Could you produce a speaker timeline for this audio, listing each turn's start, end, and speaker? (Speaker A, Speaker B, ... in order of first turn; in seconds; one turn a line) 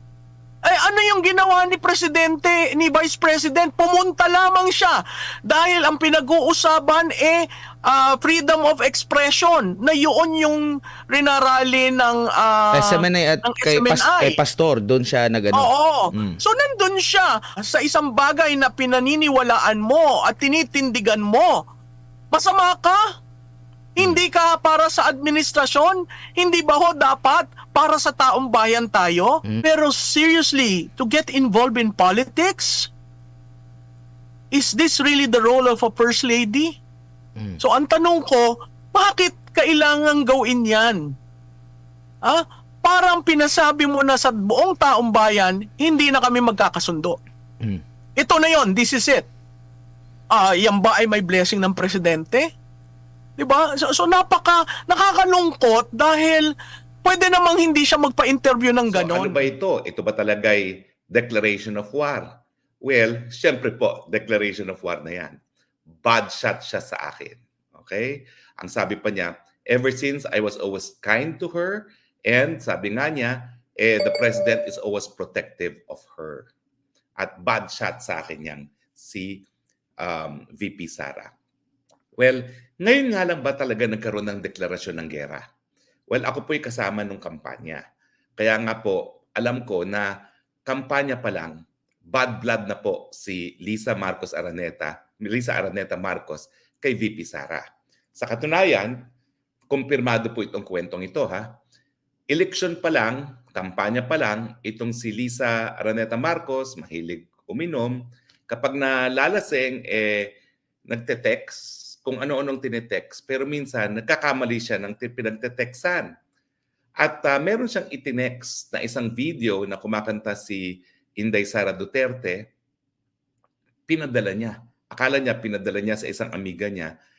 Speaker A: 0.6-14.4
Speaker B: 12.7-16.4
Speaker A: 15.5-21.6
Speaker A: 22.3-23.0
Speaker A: 24.0-32.9
Speaker B: 24.0-24.2
Speaker A: 34.5-36.8
Speaker A: 37.6-41.1
Speaker A: 42.2-47.2
Speaker A: 48.2-49.3
Speaker A: 50.3-52.5
Speaker A: 53.4-56.5
Speaker A: 57.0-59.4
Speaker C: 58.9-62.3
Speaker C: 62.8-65.4
Speaker C: 66.0-76.5
Speaker C: 77.2-79.5
Speaker C: 80.0-81.3
Speaker C: 82.2-85.4
Speaker C: 86.1-87.8
Speaker C: 88.4-90.1
Speaker C: 90.7-97.7
Speaker C: 98.2-99.0
Speaker C: 99.7-101.6
Speaker C: 102.3-110.4
Speaker C: 110.9-116.1
Speaker C: 117.0-122.5
Speaker C: 123.9-126.9